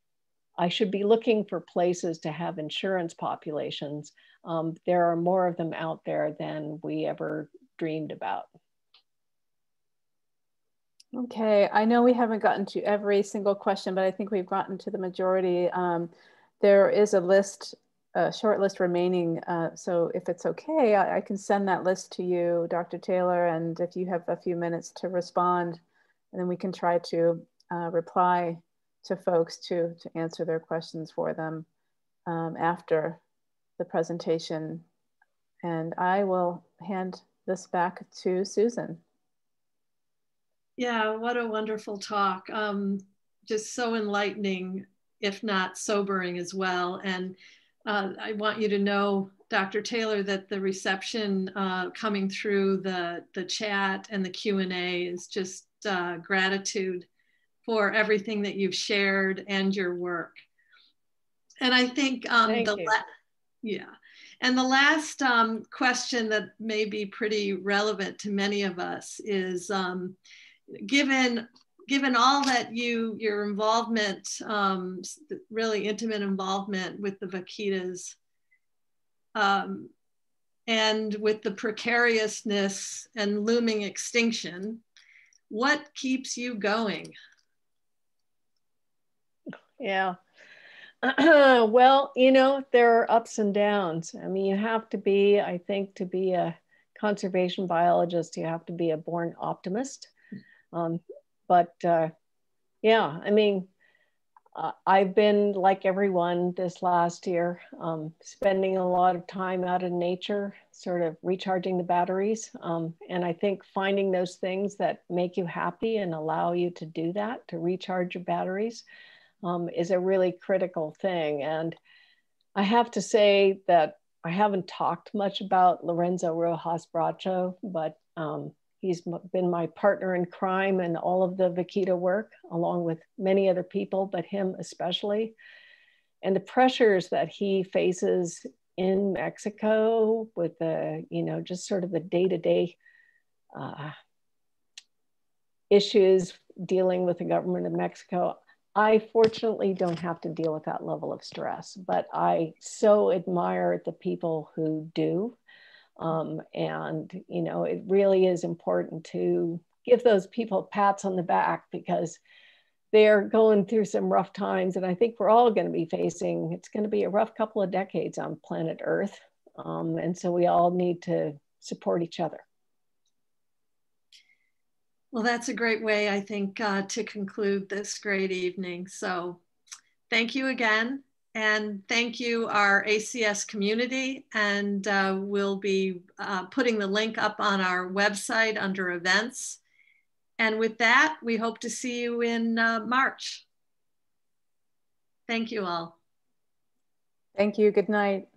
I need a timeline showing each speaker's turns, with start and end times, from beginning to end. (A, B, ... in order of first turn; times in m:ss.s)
0:00.6-0:08.5 A
0:11.1-0:31.7 B
0:32.3-0:33.2 B
0:33.8-0:34.8 B
0:35.6-0:39.0 B
0:40.8-0:57.1 C
0:57.6-1:00.4 C
1:01.6-1:03.0 C
1:02.5-1:02.9 A
1:03.6-1:10.2 C
1:10.7-1:18.2 C
1:19.4-1:19.9 C
1:20.7-1:24.8 C
1:25.5-1:27.2 C
1:29.8-1:30.2 A
1:31.0-1:40.1 A
1:40.7-1:42.1 A
1:42.8-1:43.7 A
1:44.6-1:58.8 A
1:59.4-2:01.8 A
2:02.6-2:15.4 A
2:16.2-2:22.8 A
2:23.5-2:24.0 A
2:25.7-2:35.4 A
2:36.0-2:42.2 A
2:42.9-2:52.4 A
2:55.1-2:59.4 C
3:00.1-3:09.6 C
3:10.4-3:13.4 C
3:15.3-3:16.0 C
3:17.4-3:18.3 B